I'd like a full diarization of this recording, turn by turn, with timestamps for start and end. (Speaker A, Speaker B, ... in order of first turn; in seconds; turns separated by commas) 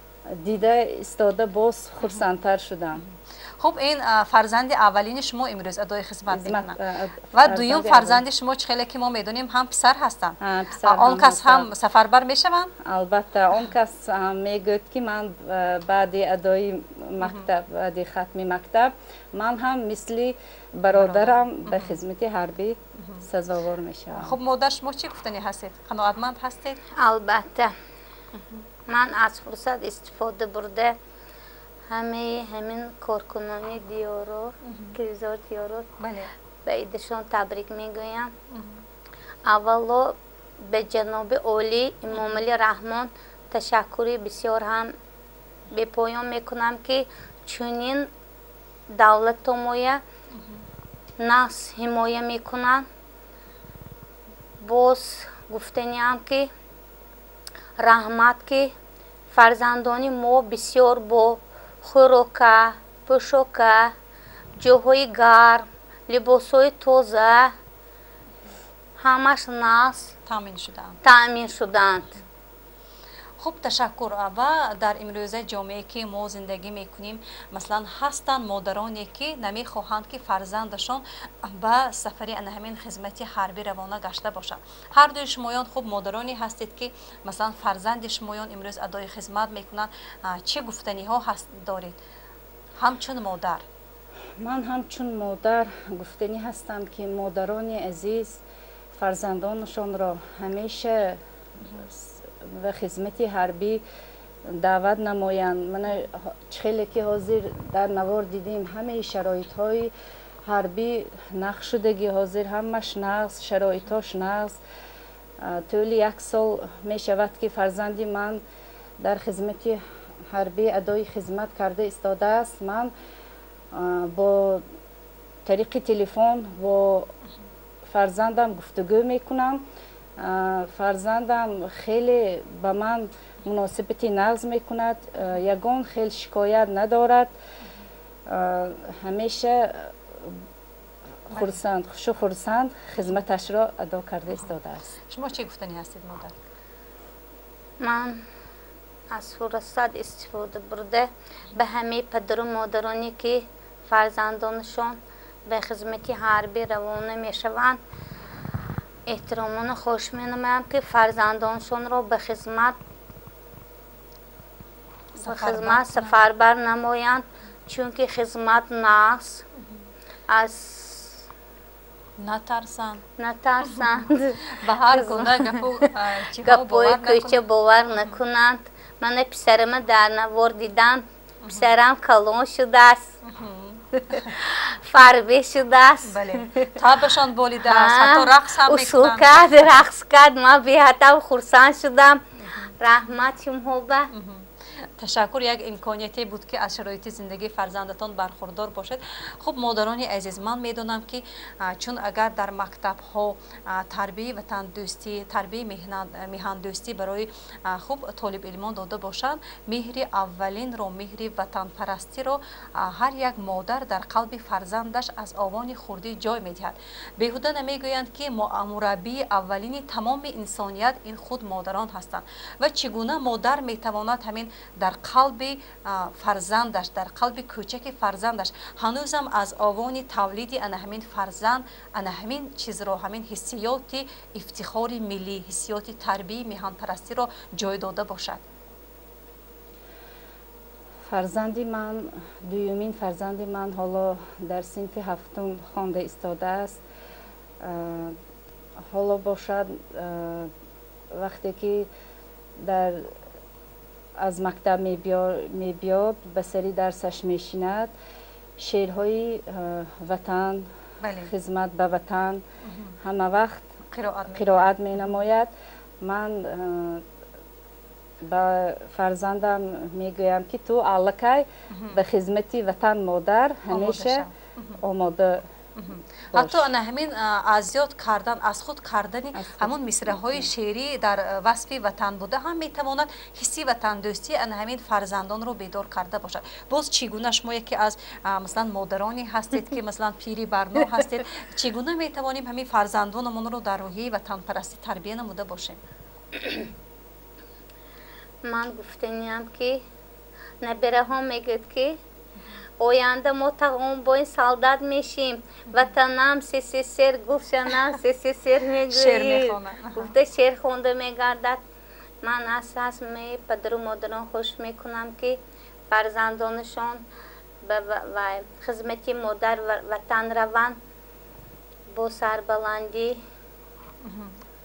Speaker A: 0.4-3.0, Speaker B: 3.0-6.8, Speaker A: 6.3-8.2, Speaker B: 7.3-12.7, Speaker A: 10.4-11.7, Speaker A: 12.8-24.4, Speaker B: 17.2-17.5, Speaker B: 20.9-22.0, Speaker B: 23.0-23.3, Speaker B: 24.1-26.8, Speaker C: 27.0-27.7, Speaker B: 28.4-28.6, Speaker C: 28.9-31.0, Speaker C: 31.9-35.9, Speaker B: 34.6-35.0, Speaker B: 36.0-36.3, Speaker C: 36.7-38.3, Speaker B: 38.5-38.8, Speaker C: 39.5-45.0, Speaker B: 42.1-42.4, Speaker C: 45.7-48.1, Speaker C: 48.9-50.0, Speaker B: 50.3-50.6, Speaker C: 51.2-52.9, Speaker C: 54.6-56.5, Speaker C: 57.8-58.7, Speaker C: 59.3-63.9, Speaker C: 64.6-67.5, Speaker C: 69.0-70.1, Speaker B: 70.3-71.0, Speaker C: 71.0-72.2, Speaker B: 73.4-92.0, Speaker B: 92.8-93.7, Speaker A: 94.4-98.4, Speaker A: 99.0-101.2, Speaker A: 102.3-103.8, Speaker A: 104.5-109.9, Speaker A: 110.5-114.6, Speaker A: 115.4-118.4, Speaker A: 119.0-122.9, Speaker A: 123.7-124.6, Speaker A: 125.5-127.1, Speaker A: 127.9-129.6, Speaker A: 130.2-137.3, Speaker A: 138.3-140.4, Speaker A: 141.3-144.9, Speaker B: 141.3-141.6, Speaker B: 145.1-146.4, Speaker C: 147.8-148.2, Speaker C: 149.1-157.8, Speaker C: 159.1-162.8, Speaker B: 165.2-166.2, Speaker C: 165.2-169.4, Speaker C: 170.3-171.2, Speaker B: 172.2-173.1, Speaker C: 173.2-175.8, Speaker B: 173.7-174.0, Speaker B: 174.6-177.4, Speaker C: 176.4-183.1, Speaker B: 181.4-181.7, Speaker B: 183.2-184.4, Speaker C: 184.5-186.4, Speaker B: 186.1-189.4, Speaker C: 187.6-192.2, Speaker B: 192.4-192.7, Speaker C: 192.8-194.1, Speaker B: 194.1-238.4, Speaker A: 241.1-246.8, Speaker A: 247.6-248.2, Speaker A: 248.9-250.5, Speaker A: 251.1-251.9, Speaker A: 252.6-253.1, Speaker A: 254.2-257.9, Speaker A: 258.6-260.7, Speaker B: 261.0-261.3, Speaker A: 261.2-262.4, Speaker B: 262.7-263.0, Speaker A: 263.0-263.7, Speaker B: 263.9-265.2, Speaker A: 264.3-267.1, Speaker A: 268.2-274.3, Speaker B: 271.7-272.0, Speaker B: 273.7-274.8, Speaker A: 274.8-275.5, Speaker B: 275.8-295.8, Speaker A: 276.3-276.6, Speaker A: 279.3-280.5, Speaker C: 298.4-299.9, Speaker C: 300.6-302.0, Speaker C: 302.8-311.6, Speaker B: 308.9-310.1, Speaker C: 312.2-317.1, Speaker C: 317.6-320.8, Speaker C: 321.9-323.2, Speaker B: 324.0-324.4